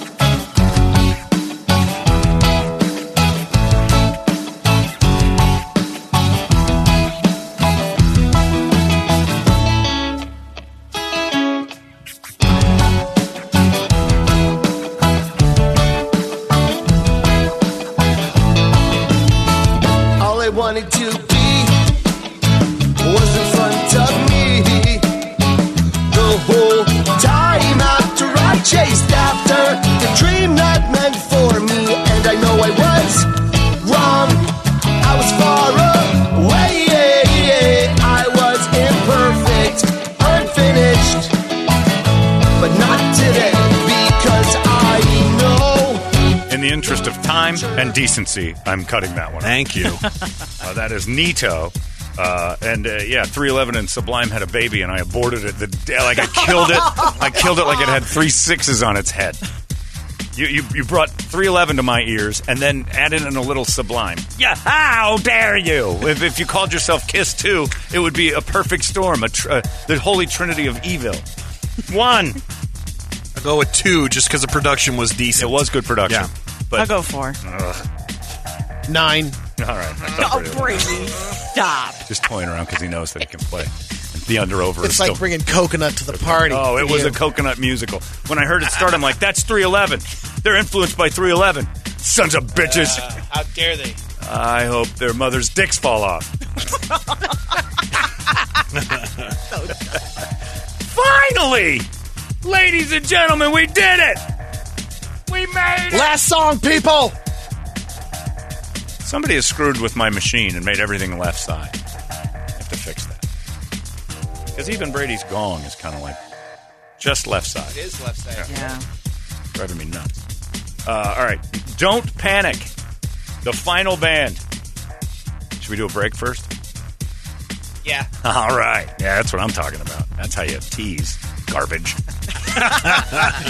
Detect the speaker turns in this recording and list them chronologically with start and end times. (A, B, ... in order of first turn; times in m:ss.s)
0:20.2-0:22.0 A
0:23.0-0:25.3 A
0:26.1-0:41.4 A
0:42.6-0:46.1 A
0:46.5-0:49.6 B
0:49.4-0:50.0 C
0:50.6-0:59.4 B
1:00.3-1:11.2 B
1:11.9-1:12.4 B
1:13.4-1:16.3 C
1:15.4-1:17.8 B
1:16.8-1:17.4 D
1:18.9-1:19.4 E
1:19.6-1:20.9 B
1:20.1-1:22.1 D
1:22.1-1:25.2 B
1:24.8-1:27.2 E
1:26.1-1:33.2 B
1:32.5-1:34.0 F
1:34.2-1:36.4 B
1:39.5-1:39.8 D
1:40.8-1:41.9 B
1:42.4-1:44.2 B
1:45.3-1:46.1 B
1:45.9-1:47.2 E
1:49.0-1:51.8 B
1:52.6-1:53.2 B
1:54.6-1:56.2 B
1:57.0-1:57.8 B
1:57.6-1:58.8 F
1:58.5-1:58.8 D
1:59.6-2:00.2 B
2:00.9-2:02.7 B
2:03.4-2:04.4 B
2:05.6-2:06.5 B
2:07.8-2:08.1 F
2:08.2-2:12.0 B
2:12.6-2:13.3 B